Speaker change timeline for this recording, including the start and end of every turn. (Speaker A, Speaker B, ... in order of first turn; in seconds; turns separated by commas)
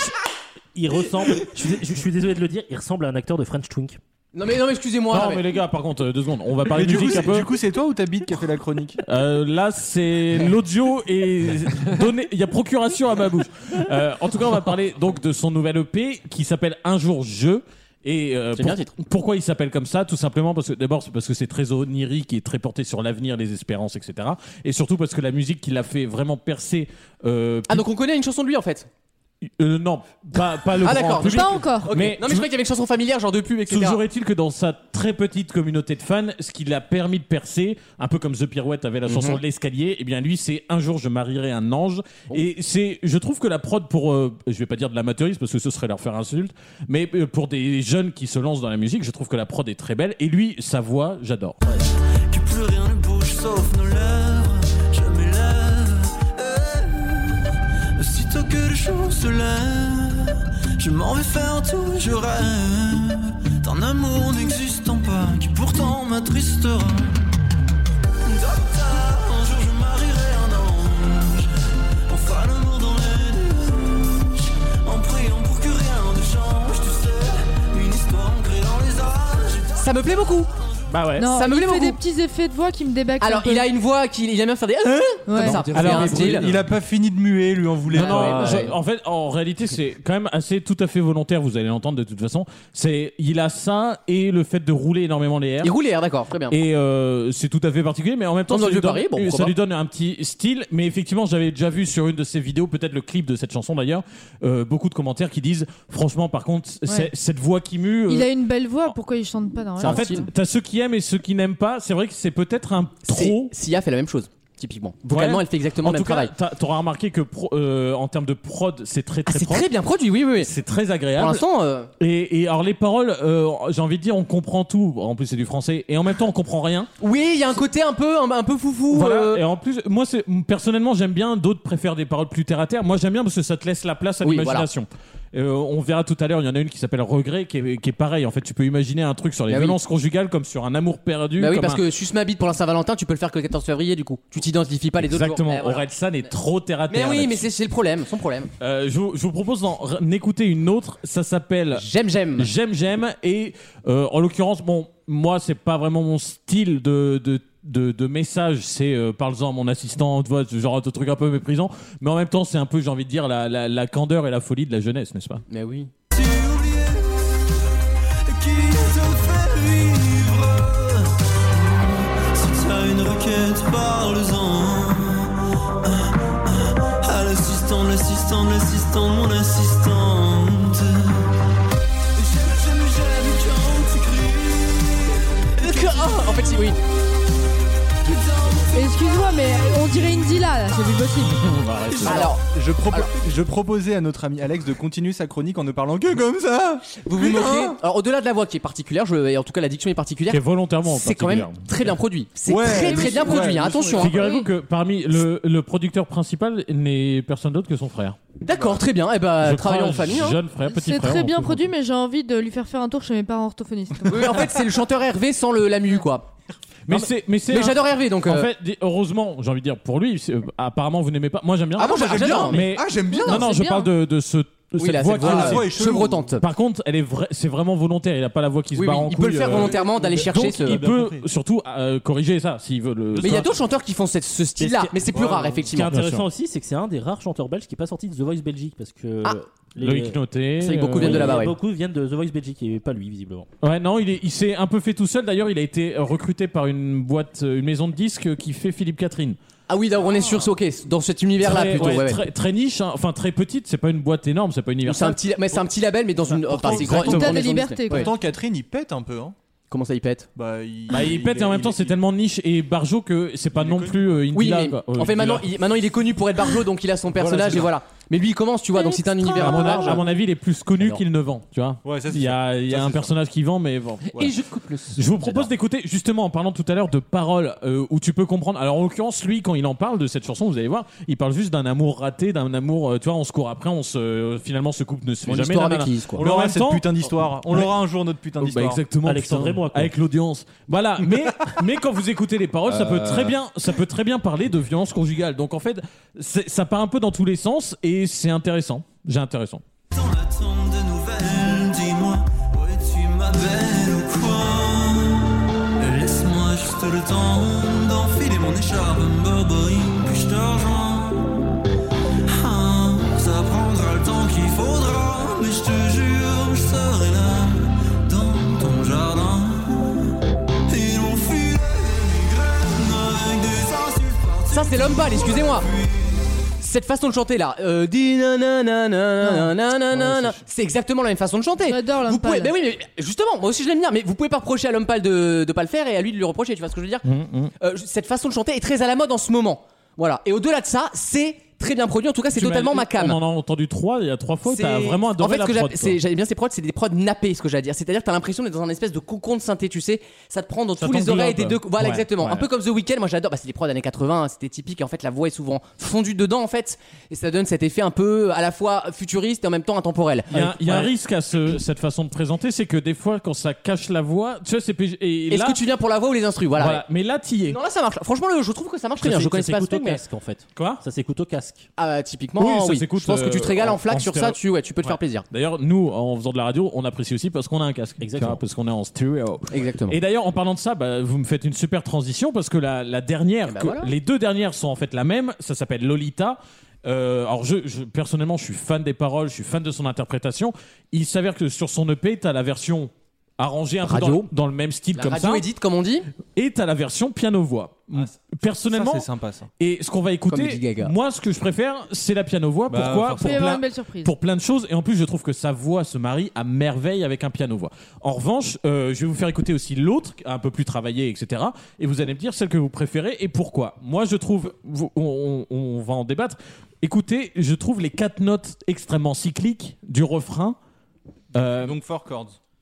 Speaker A: 0.7-4.0, Speaker B: 4.3-5.4, Speaker C: 5.1-7.5, Speaker D: 6.6-9.0, Speaker C: 9.0-27.9, Speaker B: 18.6-18.9, Speaker B: 27.7-28.9, Speaker C: 29.6-32.5, Speaker B: 30.8-34.0, Speaker E: 31.1-31.9, Speaker C: 33.7-51.6, Speaker B: 39.1-39.4, Speaker F: 52.3-67.2, Speaker F: 68.2-71.5, Speaker F: 72.1-79.9, Speaker B: 79.8-80.5, Speaker C: 80.9-81.3, Speaker E: 81.2-83.6, Speaker B: 81.2-82.0, Speaker B: 83.2-86.4, Speaker E: 85.3-85.6, Speaker G: 85.3-86.7, Speaker D: 85.7-88.7, Speaker C: 87.9-95.7, Speaker B: 87.9-88.7, Speaker B: 95.6-96.6, Speaker C: 96.5-108.3, Speaker B: 98.5-99.5, Speaker E: 108.1-110.3, Speaker B: 109.8-110.3, Speaker C: 109.8-113.5, Speaker B: 113.0-116.3, Speaker C: 115.1-119.7, Speaker B: 119.3-120.5, Speaker C: 120.4-121.4, Speaker B: 121.2-121.9, Speaker C: 122.0-126.9, Speaker B: 127.0-129.4, Speaker C: 128.9-141.8, Speaker B: 134.2-134.7, Speaker B: 139.5-139.8, Speaker B: 141.4-146.3, Speaker C: 145.1-147.4, Speaker B: 146.9-148.5, Speaker C: 148.6-151.8, Speaker B: 151.8-152.5, Speaker C: 152.4-165.4, Speaker B: 165.5-165.9, Speaker F: 166.1-167.5, Speaker F: 168.2-181.3, Speaker F: 182.2-186.2, Speaker B: 185.6-186.8, Speaker F: 188.0-190.1, Speaker E: 188.7-191.4, Speaker C: 191.2-192.3, Speaker F: 191.9-192.2, Speaker B: 192.0-193.1, Speaker D: 192.2-197.8, Speaker B: 197.0-204.2, Speaker C: 200.3-201.6, Speaker D: 202.5-204.2, Speaker E: 202.8-204.5, Speaker C: 204.0-208.2, Speaker B: 208.4-210.4, Speaker D: 208.5-208.8, Speaker C: 209.4-211.6, Speaker E: 210.7-214.5, Speaker B: 214.1-216.3, Speaker C: 216.9-225.9, Speaker B: 216.9-218.5, Speaker B: 221.8-222.7, Speaker D: 221.8-223.6, Speaker E: 223.1-223.9, Speaker B: 224.8-226.4, Speaker D: 225.2-226.3, Speaker C: 226.4-233.5, Speaker B: 228.8-230.8, Speaker D: 229.4-231.2, Speaker D: 233.2-233.4, Speaker B: 233.2-235.9, Speaker A: 234.6-235.0, Speaker D: 235.1-235.7, Speaker C: 235.8-236.2, Speaker A: 235.8-240.2, Speaker C: 239.8-241.4, Speaker B: 240.6-241.5, Speaker A: 240.9-243.5, Speaker C: 243.6-249.4, Speaker B: 249.7-252.2, Speaker C: 251.4-255.2, Speaker B: 254.8-258.1, Speaker C: 256.5-257.4, Speaker D: 256.6-257.3, Speaker E: 256.8-258.1, Speaker D: 257.9-259.4, Speaker B: 259.7-260.3, Speaker D: 260.4-262.0, Speaker C: 260.9-265.4, Speaker D: 263.6-264.0, Speaker B: 264.3-270.1, Speaker D: 267.1-267.7, Speaker E: 268.8-269.4, Speaker C: 269.3-274.4, Speaker D: 271.8-273.1, Speaker G: 274.1-275.1, Speaker C: 274.9-287.7, Speaker B: 285.2-286.2, Speaker D: 286.2-288.8, Speaker C: 288.4-299.6, Speaker A: 289.0-289.9, Speaker G: 292.6-293.4, Speaker F: 299.9-311.3, Speaker F: 312.3-320.1, Speaker F: 320.7-326.2, Speaker B: 324.5-325.7, Speaker B: 326.6-337.1, Speaker E: 329.2-329.5, Speaker D: 330.0-330.3, Speaker E: 331.6-332.5, Speaker C: 337.0-337.5, Speaker B: 337.6-343.2, Speaker C: 342.3-346.0, Speaker B: 344.4-360.9, Speaker C: 350.8-352.5, Speaker C: 360.3-365.6, Speaker B: 365.3-366.8, Speaker C: 366.6-367.6, Speaker B: 367.5-370.0, Speaker A: 369.0-371.6, Speaker C: 370.5-370.8, Speaker B: 371.8-375.2, Speaker C: 372.4-395.4, Speaker A: 378.0-378.4, Speaker B: 379.5-379.9, Speaker B: 383.5-383.9, Speaker B: 393.8-394.3, Speaker B: 394.9-396.1, Speaker C: 396.3-399.1, Speaker D: 398.6-399.5, Speaker C: 399.6-420.6, Speaker B: 400.3-400.9, Speaker D: 402.7-403.4, Speaker E: 403.2-404.1, Speaker C: 421.3-421.8, Speaker D: 421.6-422.4